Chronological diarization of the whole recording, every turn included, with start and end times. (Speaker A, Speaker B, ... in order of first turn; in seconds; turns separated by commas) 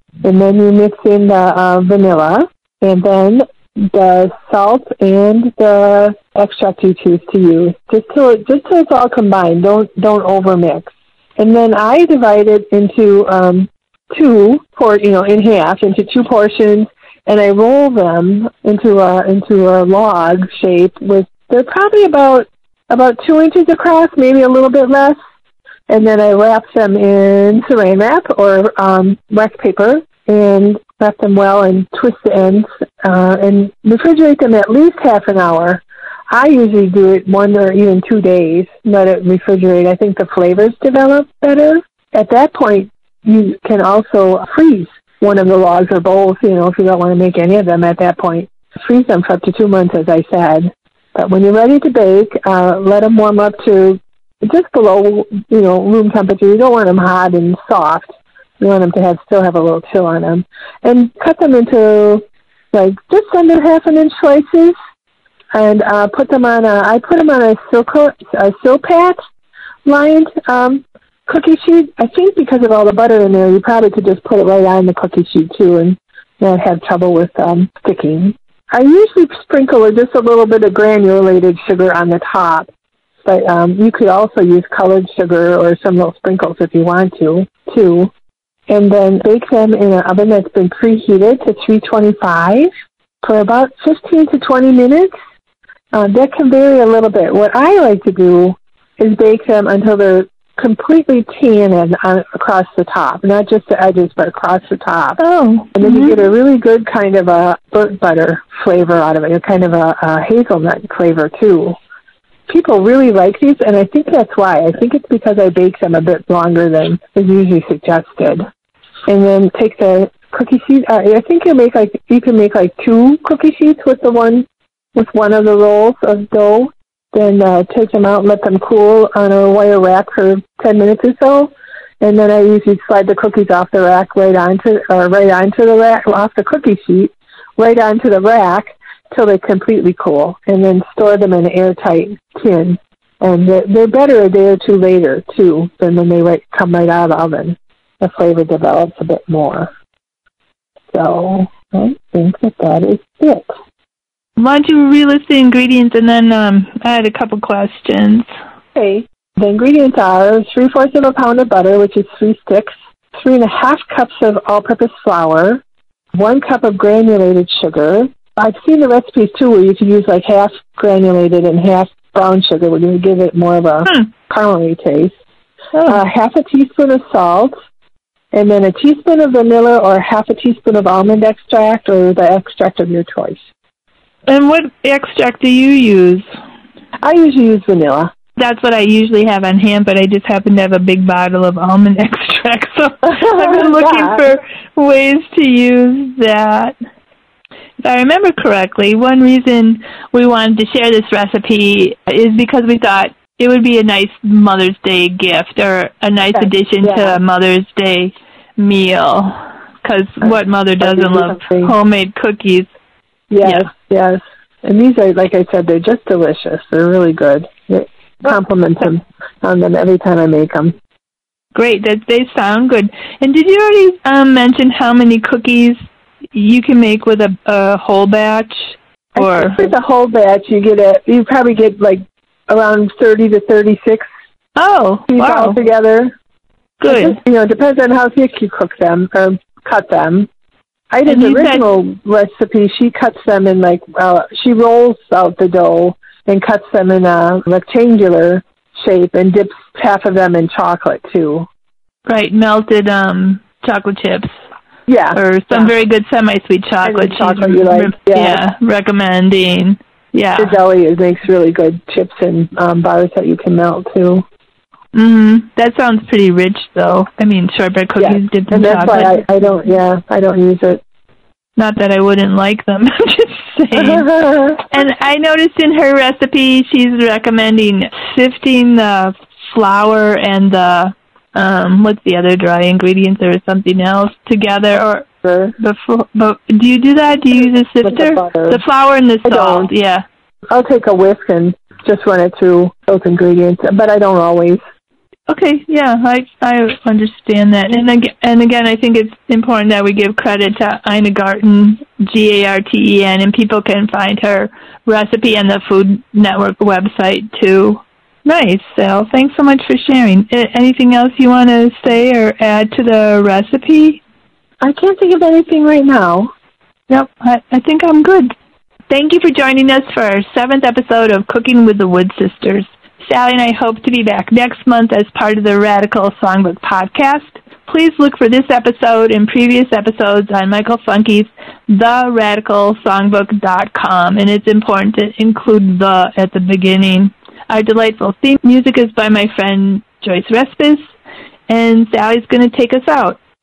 Speaker A: 0.2-25.2, Speaker A: 25.9-64.8, Speaker A: 65.5-69.2, Speaker A: 69.8-82.7, Speaker A: 83.2-88.1, Speaker A: 88.7-92.7, Speaker A: 93.2-95.1, Speaker A: 95.9-105.2, Speaker B: 105.2-106.2, Speaker A: 105.8-111.8, Speaker A: 112.5-118.4, Speaker A: 119.1-149.7, Speaker A: 150.9-153.5, Speaker B: 154.4-158.3, Speaker A: 158.8-165.6, Speaker A: 166.1-175.2, Speaker B: 175.7-176.0, Speaker A: 175.9-177.5, Speaker A: 178.3-183.4, Speaker B: 184.3-186.2, Speaker A: 187.0-188.1, Speaker B: 188.4-196.7, Speaker A: 193.0-194.2, Speaker B: 197.8-212.7, Speaker A: 206.3-207.2, Speaker A: 210.2-211.8, Speaker A: 213.3-220.7, Speaker B: 213.4-213.7, Speaker B: 221.6-225.8, Speaker B: 226.3-229.7, Speaker A: 229.2-234.1, Speaker B: 234.6-235.6, Speaker A: 235.1-236.1, Speaker B: 236.8-237.2, Speaker A: 236.8-240.3, Speaker A: 240.9-251.5, Speaker B: 241.1-241.6, Speaker B: 252.1-254.3, Speaker A: 254.9-255.7, Speaker B: 255.2-260.6, Speaker A: 256.8-258.4, Speaker A: 260.4-264.2, Speaker B: 264.9-269.2, Speaker A: 268.0-270.8, Speaker B: 271.6-274.1, Speaker A: 273.8-274.7, Speaker B: 274.7-285.1, Speaker A: 285.2-285.6, Speaker B: 285.6-290.0, Speaker A: 287.3-288.6, Speaker A: 289.2-289.7, Speaker A: 290.5-294.6, Speaker B: 295.3-314.0, Speaker A: 314.6-316.3, Speaker B: 316.9-318.3, Speaker B: 318.9-340.9, Speaker B: 341.5-343.2